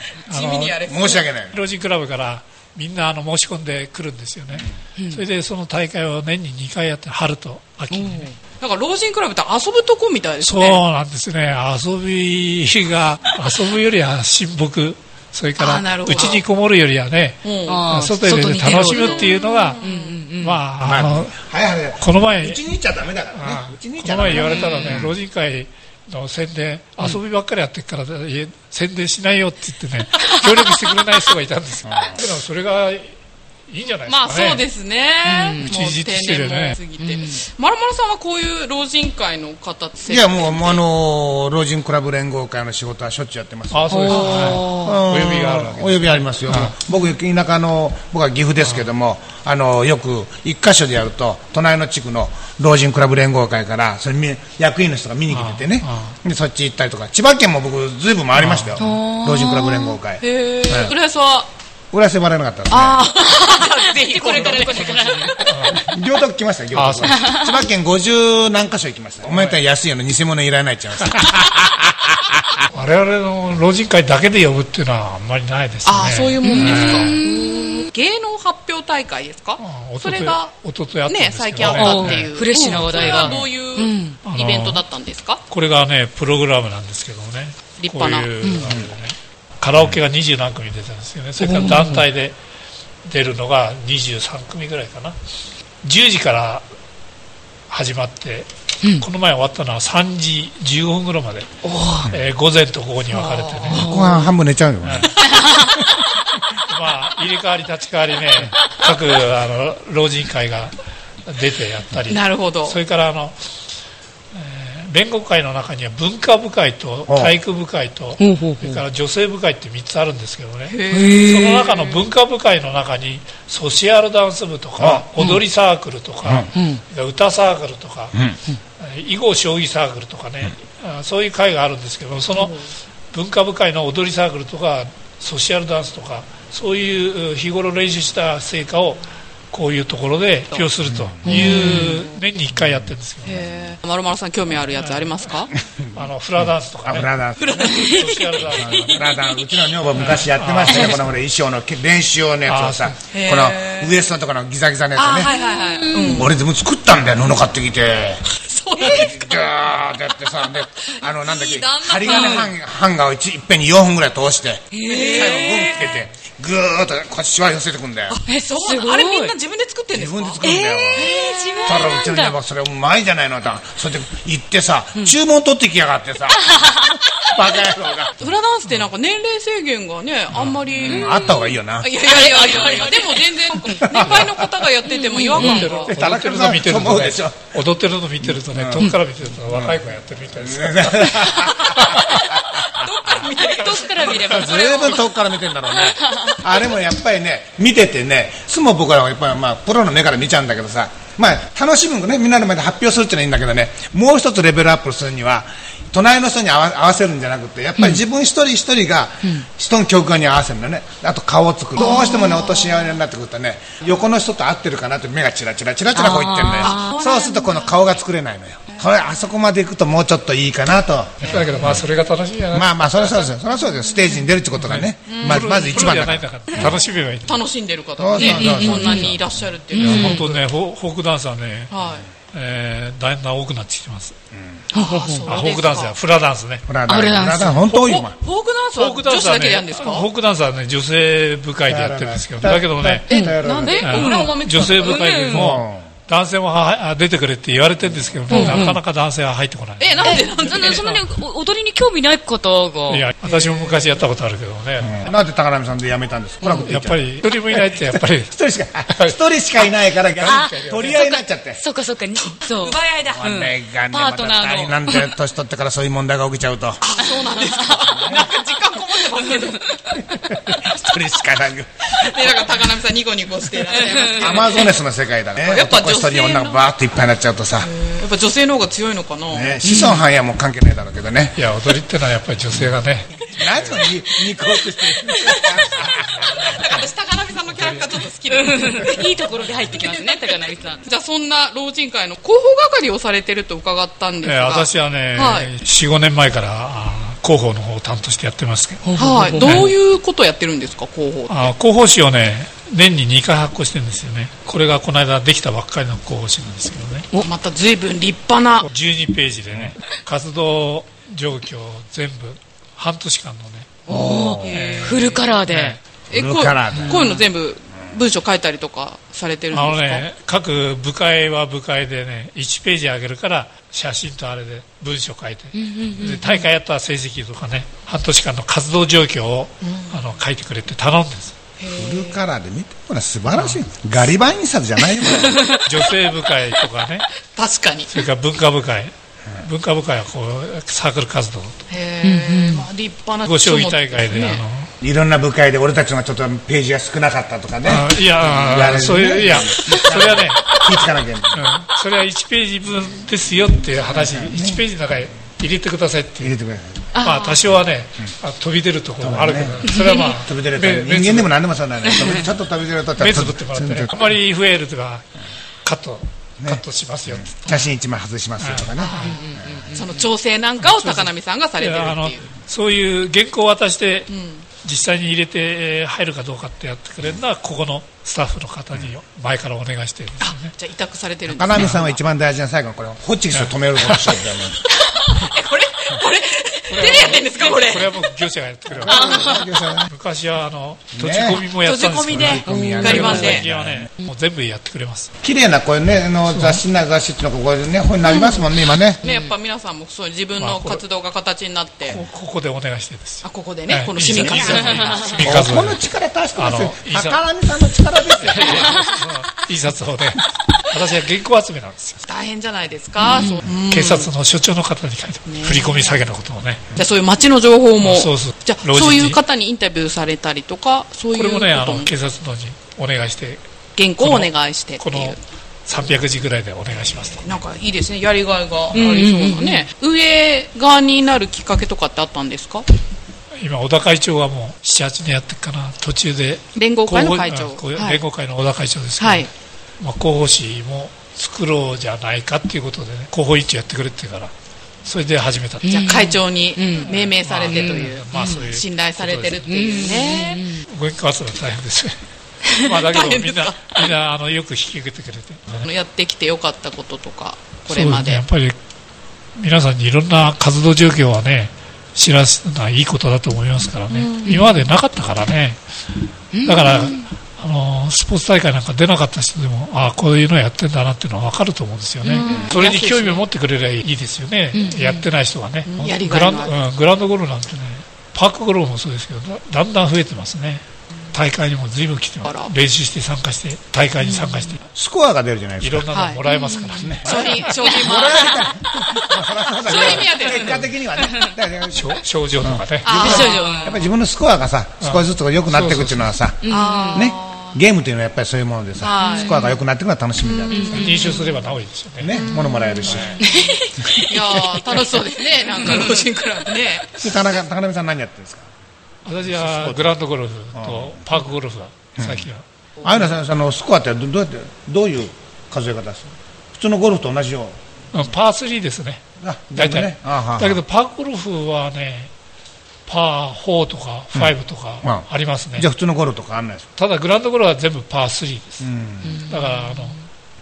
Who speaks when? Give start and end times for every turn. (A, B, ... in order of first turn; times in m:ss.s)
0:00.3-0:00.8 A
0:00.3-0:01.3 B
0:00.8-0:01.6 C
0:01.5-0:08.3 A
0:05.0-0:05.2 D
0:07.9-0:08.3 D
0:08.6-0:10.8 B
0:10.4-0:19.8 A
0:15.6-0:16.4 B
0:17.4-0:18.0 B
0:17.7-0:20.6 D
0:18.7-0:20.2 B
0:20.4-0:21.4 A
0:20.8-0:25.2 C
0:22.0-0:22.6 A
0:23.3-0:33.2 A
0:24.4-0:25.0 D
0:31.8-0:32.2 C
0:33.7-0:34.6 A
0:34.1-0:40.8 B
0:35.2-0:35.7 D
0:35.6-0:36.8 A
0:37.0-0:37.4 D
0:40.1-1:01.0 C
0:43.7-0:46.8 A
0:43.9-0:45.0 D
0:44.2-0:44.5 B
0:55.3-0:56.2 A
0:58.3-0:58.9 A
0:58.8-1:00.0 D
1:00.2-1:01.5 B
1:01.9-1:03.1 C
1:02.7-1:05.5 B
1:03.5-1:05.4 D
1:04.4-1:05.9 A
1:05.7-1:12.4 C
1:06.7-1:07.3 A
1:07.1-1:07.6 D
1:09.3-1:09.6 A
1:12.7-1:17.2 A
1:15.8-1:20.5 B
1:16.4-1:17.9 D
1:19.6-1:23.4 A
1:21.1-1:25.4 B
1:21.6-1:24.2 D
1:24.2-1:24.8 A
1:25.5-1:32.4 A
1:27.8-1:28.5 B
1:28.4-1:28.8 D
1:31.4-1:32.0 D
1:33.0-1:35.2 A
1:35.8-1:36.6 A
1:37.7-1:41.5 A
1:41.6-1:42.1 D
1:42.1-1:43.8 A
1:43.1-1:43.9 B
1:43.7-1:44.3 D
1:43.7-1:45.3 C
1:44.8-1:45.1 A
1:45.2-1:45.7 B
1:45.4-1:45.7 D
1:46.7-1:50.8 A
1:51.3-1:53.4 A
1:52.1-1:52.8 B
1:54.3-2:08.2 A
1:57.1-1:57.4 C
1:58.2-1:58.8 D
2:00.7-2:02.0 B
2:00.9-2:01.5 D
2:04.8-2:05.1 C
2:06.5-2:06.8 D
2:08.8-2:12.6 A
2:13.1-2:23.4 A
2:20.9-2:21.3 C
2:21.2-2:22.1 D
2:21.4-2:22.0 B
2:22.6-2:22.8 C
2:23.2-2:25.5 B
2:24.8-2:25.3 A
2:25.8-2:27.9 C
2:25.9-2:27.1 A
2:27.4-2:28.4 B
2:27.7-2:29.1 A
2:27.8-2:28.1 D
2:28.4-2:35.3 C
2:30.0-2:31.1 A
2:32.5-2:33.0 A
2:33.1-2:34.0 B
2:35.0-2:36.3 B
2:35.3-2:36.3 D
2:36.0-2:38.2 C
2:38.4-2:39.6 B
2:38.8-2:48.2 C
2:40.9-2:42.5 B
2:42.0-2:42.4 D
2:44.7-2:45.7 D
2:44.8-2:46.0 B
2:48.1-2:52.0 B
2:48.3-2:49.4 D
2:49.9-2:56.8 C
2:50.4-2:52.4 D
2:56.4-2:57.0 D
2:57.3-2:58.2 C
2:58.2-3:05.9 B
3:00.7-3:01.9 C
3:00.9-3:01.4 D
3:02.0-3:03.8 D
3:03.8-3:04.5 C
3:04.0-3:04.2 A
3:04.9-3:05.7 D
3:05.4-3:12.3 A
3:05.5-3:07.4 C
3:08.2-3:08.9 C
3:09.5-3:13.3 C
3:12.6-3:15.1 B
3:13.5-3:15.0 D
3:14.0-3:41.8 C
3:15.8-3:16.4 D
3:31.8-3:32.4 D
3:31.8-3:32.9 B
3:36.0-3:37.2 D
3:36.6-3:37.8 B
3:41.2-3:43.3 A
3:41.2-3:41.6 B
3:42.5-3:46.7 C
3:44.6-3:47.4 A
3:45.1-3:50.4 B
3:48.0-3:49.3 C
3:48.2-3:49.1 D
3:49.7-3:50.2 D
3:49.8-3:51.7 A
3:51.7-3:52.1 B
3:52.3-3:54.2 A
3:54.3-3:54.6 C
3:54.7-3:56.0 B
3:54.7-3:55.3 D
3:55.3-3:56.7 A
3:56.7-3:58.2 C
3:56.9-3:57.6 D
3:57.6-4:00.1 B
3:58.8-4:03.1 A
4:01.7-4:04.0 C
4:03.1-4:05.3 B
4:03.1-4:05.6 D
4:03.8-4:11.0 A
4:05.3-4:05.9 C
4:08.3-4:08.8 D
4:08.3-4:08.7 B
4:09.8-4:10.9 B
4:10.0-4:13.1 D
4:12.9-4:15.1 A
4:13.2-4:13.9 B
4:14.8-4:21.6 C
4:16.4-4:16.7 D
4:16.6-4:18.3 A
4:18.9-4:19.2 A
4:20.2-4:21.0 A
4:20.2-4:25.1 D
4:22.2-4:23.4 B
4:23.1-4:26.8 C
4:26.8-4:29.9 B
4:27.0-4:27.7 D
4:27.8-4:28.3 C
4:29.2-4:30.0 D
4:30.1-4:32.4 C
4:31.9-4:34.8 B
4:33.7-4:34.3 D
4:34.1-4:37.7 C
4:35.4-4:36.6 B
4:37.6-4:39.6 B
4:39.3-4:41.4 C
4:39.6-4:40.0 D
4:41.4-4:43.8 A
4:43.3-4:46.5 C
4:45.1-4:45.7 B
4:46.2-4:46.8 A
4:46.3-4:49.2 B
4:47.5-4:47.9 A
4:48.3-4:50.8 D
4:49.7-4:55.5 B
4:54.2-4:59.7 A
4:58.8-4:59.7 D
4:59.0-5:01.5 B
5:01.3-5:07.1 A
5:07.2-5:08.7 B
5:08.6-5:13.8 A
5:13.9-5:15.8 D
5:13.9-5:14.6 C
5:14.4-5:15.4 B
5:14.5-5:15.8 A
5:16.1-5:20.1 B
5:16.1-5:17.1 C
5:16.8-5:17.2 D
5:19.5-5:31.4 A
5:25.5-5:26.5 D
5:29.6-5:30.0 B
5:31.6-5:32.2 B
5:31.8-5:35.4 C
5:33.3-5:33.6 A
5:35.6-5:37.1 A
5:37.4-5:37.9 B
5:37.9-5:41.6 A
5:41.7-5:44.4 B
5:42.0-5:42.7 D
5:43.3-5:44.7 A
5:44.8-5:51.5 C
5:47.6-5:50.6 A
5:51.3-5:56.3 A
5:53.9-5:54.6 C
5:56.2-5:56.9 C
5:57.0-5:57.3 B
5:57.0-6:01.4 A
5:59.0-6:04.0 C
5:59.7-6:00.1 D
6:01.9-6:02.2 D
6:03.0-6:05.1 A
6:05.6-6:07.6 A
6:06.4-6:09.6 C
6:08.4-6:09.2 A
6:08.8-6:12.3 B
6:09.0-6:10.1 D
6:10.6-6:14.1 A
6:14.1-6:14.5 B
6:14.6-6:20.5 A
6:20.2-6:22.0 B
6:21.3-6:24.6 C
6:23.3-6:24.2 A
6:24.6-6:28.1 B
6:26.7-6:29.3 A
6:28.7-6:29.9 C
6:28.9-6:29.4 B
6:29.0-6:29.4 D
6:29.9-6:35.1 A
6:30.9-6:31.4 C
6:31.4-6:33.5 B
6:32.1-6:33.9 C
6:32.5-6:33.3 D
6:35.2-6:39.0 C
6:36.3-6:36.6 A
6:39.0-6:42.0 B
6:39.0-6:39.3 D
6:40.4-6:40.8 A
6:41.9-6:45.8 A
6:43.2-6:45.2 B
6:44.2-6:44.5 C
6:44.7-6:45.0 D
6:45.2-6:48.9 C
6:46.4-6:47.2 A
6:48.2-6:52.0 A
6:52.1-6:54.1 B
6:53.0-6:53.4 D
6:53.7-6:56.6 A
6:55.3-6:56.0 B
6:56.8-7:01.9 B
6:57.8-6:59.2 A
7:01.1-7:03.4 A
7:03.8-7:05.2 B
7:04.0-7:07.2 A
7:07.2-7:12.7 B
7:08.7-7:09.7 D
7:13.3-7:24.3 A
7:16.6-7:18.0 B
7:19.0-7:19.3 B
7:24.8-7:25.8 A
7:25.6-7:26.9 D
7:25.7-7:30.5 B
7:26.9-7:29.4 A
7:27.4-7:28.4 D
7:29.5-7:30.6 D
7:30.7-7:32.0 A
7:32.5-7:35.7 A
7:32.7-7:33.9 B
7:35.6-7:38.2 B
7:37.7-7:38.6 A
7:39.4-7:45.6 A
7:43.9-7:44.5 B
7:46.3-7:47.1 D
7:46.4-8:04.6 A
7:52.0-7:52.4 D
7:52.1-7:53.2 B
7:52.3-7:52.5 C
7:54.5-7:55.0 D
7:55.7-7:56.6 B
8:02.2-8:02.5 B
8:04.0-8:04.5 D
8:04.7-8:05.9 C
8:05.6-8:07.5 A
8:05.9-8:06.2 B
8:06.3-8:06.9 D
8:06.8-8:21.0 C
8:07.0-8:08.5 B
8:07.6-8:08.2 D
8:09.6-8:10.7 B
8:11.0-8:11.3 D
8:11.7-8:12.9 A
8:12.8-8:13.9 B
8:12.9-8:13.8 D
8:14.8-8:16.1 A
8:16.4-8:17.1 D
8:16.5-8:17.6 B
8:18.8-8:19.6 B
8:19.0-8:19.5 D
8:20.2-8:21.2 B
8:20.5-8:21.3 D
8:20.7-8:22.1 A
8:22.0-8:23.2 C
8:22.1-8:23.6 B
8:22.3-8:24.1 D
8:22.9-8:23.2 A
8:23.8-8:24.1 C
8:24.1-8:27.1 B
8:25.6-8:26.0 D
8:26.9-8:28.5 C
8:29.0-8:32.4 A
8:29.3-8:29.9 C
8:30.5-8:31.1 C
8:32.0-8:32.3 C
8:32.8-8:37.6 C
8:37.9-8:39.0 A
8:39.2-8:40.6 C
8:39.6-8:42.1 A
8:42.9-8:45.7 A
8:44.1-8:46.7 C
8:46.8-8:48.7 A
8:48.6-8:49.2 C
8:49.0-8:50.0 D
8:49.2-8:50.0 A